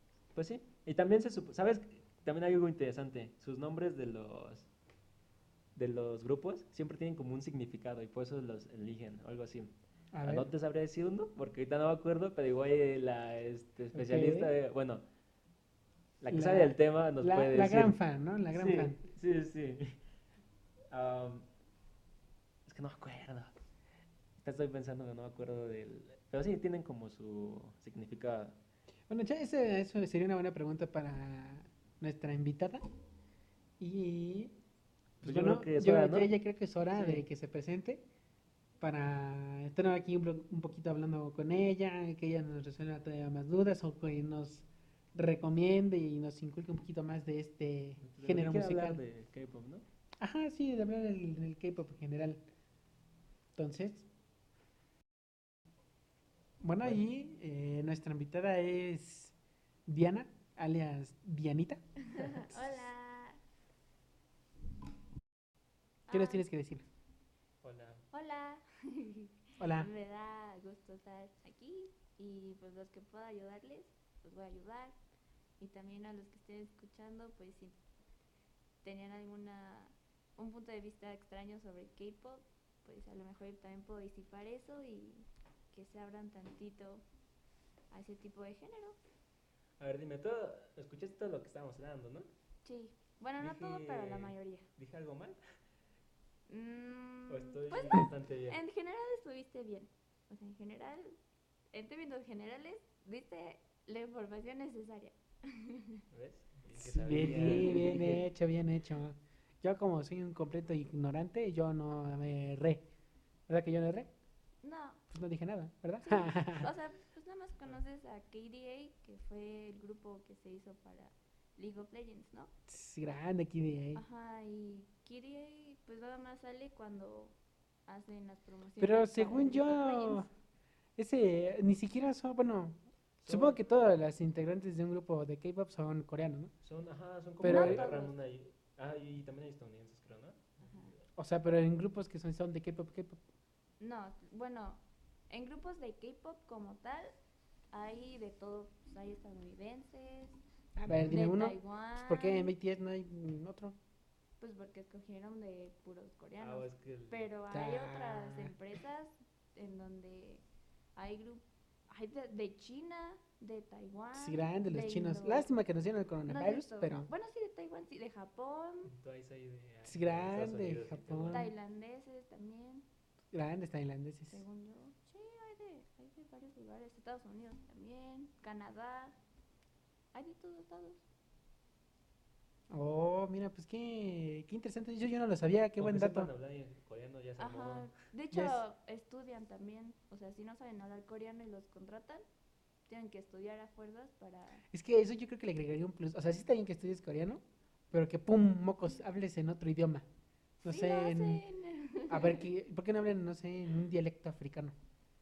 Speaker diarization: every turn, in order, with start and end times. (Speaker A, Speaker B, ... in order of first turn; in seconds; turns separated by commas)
Speaker A: 0.3-4.7, Speaker A: 5.8-9.7, Speaker B: 10.1-10.5, Speaker A: 10.2-15.0, Speaker B: 13.9-14.5, Speaker A: 16.2-18.0, Speaker B: 16.3-19.0, Speaker A: 18.5-20.0, Speaker A: 20.9-21.5, Speaker A: 22.7-23.6, Speaker A: 24.4-28.6, Speaker B: 29.1-32.8, Speaker B: 33.8-34.6, Speaker B: 35.2-38.0, Speaker A: 35.2-36.3, Speaker A: 36.9-37.2, Speaker B: 38.8-49.0, Speaker A: 48.0-49.9, Speaker B: 50.2-52.4, Speaker B: 53.6-54.1, Speaker B: 56.6-59.3, Speaker B: 59.9-62.7, Speaker C: 62.1-63.4, Speaker C: 66.1-66.5, Speaker B: 66.1-66.9, Speaker A: 67.6-68.0, Speaker C: 68.1-75.0, Speaker B: 69.6-69.9, Speaker C: 75.6-77.8, Speaker C: 78.8-87.0, Speaker C: 87.9-89.0, Speaker A: 89.8-92.3, Speaker C: 92.7-94.7, Speaker A: 93.4-95.4, Speaker C: 96.5-101.2, Speaker A: 97.3-98.6, Speaker C: 101.7-106.0, Speaker A: 106.1-108.3, Speaker B: 106.8-112.8, Speaker B: 113.5-114.1, Speaker C: 114.6-115.0, Speaker B: 115.1-116.7, Speaker C: 116.0-122.5, Speaker B: 122.7-124.0, Speaker C: 124.0-127.3, Speaker C: 127.9-130.3, Speaker B: 128.8-130.3, Speaker B: 131.0-136.5, Speaker A: 133.2-133.6, Speaker A: 136.6-140.9, Speaker B: 137.4-137.9, Speaker C: 137.4-138.2, Speaker C: 140.6-140.9, Speaker B: 141.2-143.2, Speaker C: 143.8-147.2, Speaker C: 147.7-150.4, Speaker B: 150.8-153.8, Speaker A: 150.9-151.2, Speaker C: 151.1-152.5, Speaker C: 154.4-160.4, Speaker A: 156.4-157.3, Speaker B: 157.5-158.5, Speaker C: 161.0-165.5, Speaker B: 164.2-167.1, Speaker C: 166.3-168.9, Speaker A: 168.8-171.5, Speaker B: 169.9-171.5, Speaker C: 171.3-172.8, Speaker B: 173.3-174.4, Speaker C: 174.3-179.2, Speaker C: 180.1-181.0, Speaker B: 182.7-186.3, Speaker A: 185.8-187.9, Speaker C: 187.4-192.2, Speaker B: 188.3-188.6, Speaker C: 192.9-194.6, Speaker B: 194.7-200.1, Speaker B: 200.6-201.4, Speaker C: 200.6-202.5, Speaker B: 202.1-204.8